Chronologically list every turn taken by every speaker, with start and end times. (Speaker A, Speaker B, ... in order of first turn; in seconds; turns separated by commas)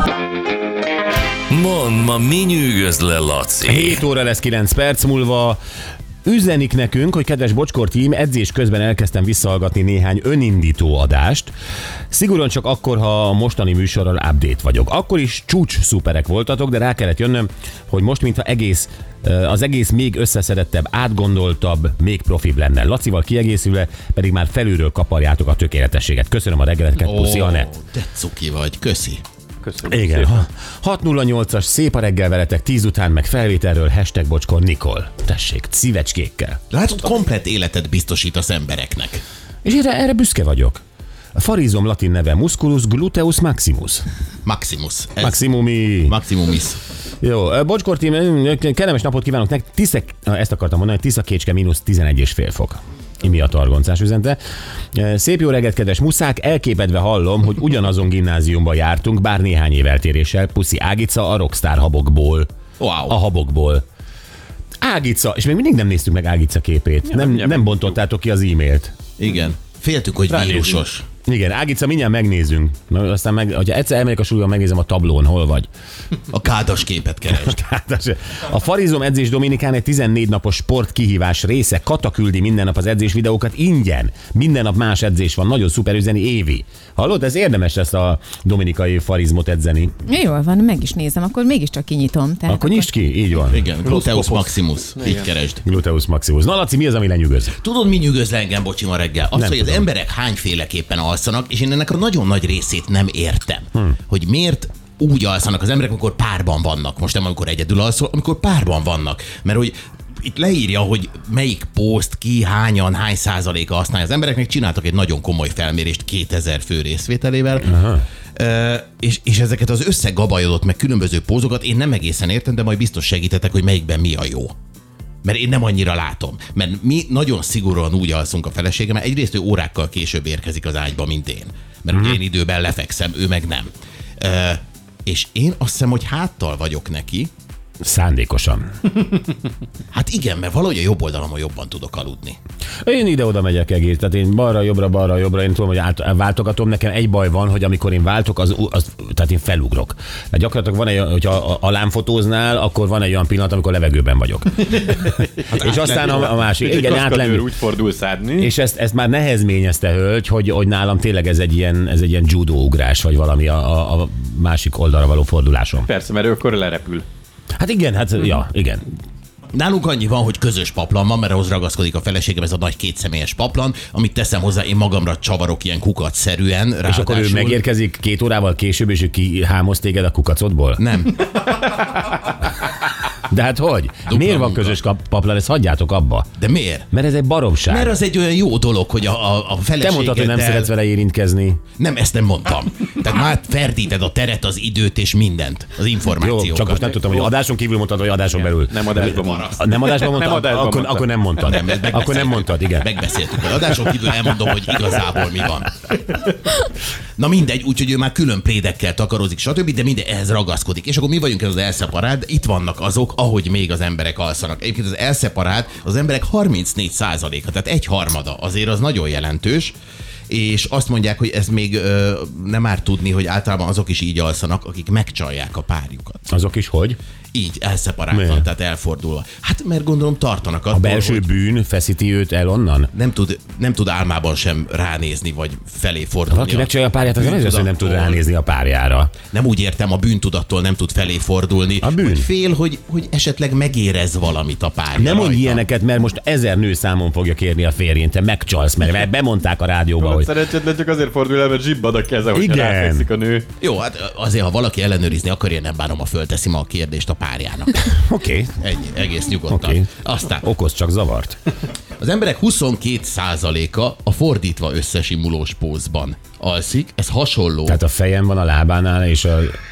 Speaker A: 1.5-4.0, Speaker B: 3.6-5.6, Speaker B: 6.2-11.5, Speaker B: 12.1-27.7, Speaker C: 27.0-29.2, Speaker D: 29.6-30.4, Speaker B: 29.9-36.6, Speaker C: 36.7-39.2, Speaker B: 39.6-40.8, Speaker B: 41.4-44.0, Speaker C: 44.4-45.4, Speaker B: 45.2-46.1, Speaker C: 46.1-46.8, Speaker B: 47.2-54.4, Speaker B: 54.9-62.5, Speaker C: 62.8-63.1, Speaker B: 63.1-63.8, Speaker B: 64.8-68.9, Speaker D: 67.1-67.7, Speaker C: 69.2-71.0, Speaker D: 70.3-70.8, Speaker B: 71.2-75.7, Speaker C: 76.3-77.5, Speaker B: 77.3-89.9, Speaker E: 90.0-92.9, Speaker B: 92.5-93.7, Speaker C: 93.5-95.6, Speaker D: 93.8-95.3, Speaker B: 95.6-97.5, Speaker C: 97.5-117.7, Speaker B: 99.3-99.8, Speaker B: 117.6-118.0, Speaker C: 118.3-124.5, Speaker C: 125.2-137.3, Speaker B: 131.9-132.2, Speaker B: 137.8-138.7, Speaker C: 139.9-142.4, Speaker B: 142.8-157.4, Speaker C: 155.5-156.7, Speaker D: 155.7-158.5, Speaker B: 158.4-165.9, Speaker D: 165.8-167.0, Speaker B: 167.6-168.8, Speaker C: 169.5-177.6, Speaker B: 176.9-180.8, Speaker C: 180.8-181.6, Speaker B: 183.3-186.3, Speaker C: 184.1-184.8, Speaker C: 186.4-186.9, Speaker B: 186.9-187.9, Speaker C: 187.7-190.7, Speaker B: 189.8-191.6, Speaker C: 191.8-197.0, Speaker B: 196.2-202.9, Speaker D: 198.3-201.1, Speaker C: 199.1-199.5, Speaker C: 201.4-205.7, Speaker C: 207.2-219.7, Speaker C: 220.3-226.2, Speaker B: 226.3-227.0, Speaker C: 227.3-231.2, Speaker B: 228.1-228.4, Speaker B: 230.7-232.9, Speaker C: 232.9-238.2, Speaker B: 236.3-239.1, Speaker C: 239.3-245.7, Speaker B: 241.8-242.3, Speaker B: 244.9-250.3, Speaker D: 250.0-253.5, Speaker B: 252.3-253.1, Speaker C: 253.6-257.9, Speaker B: 257.9-258.6, Speaker C: 258.6-260.4, Speaker B: 259.5-261.4, Speaker C: 262.0-267.8, Speaker B: 267.6-269.5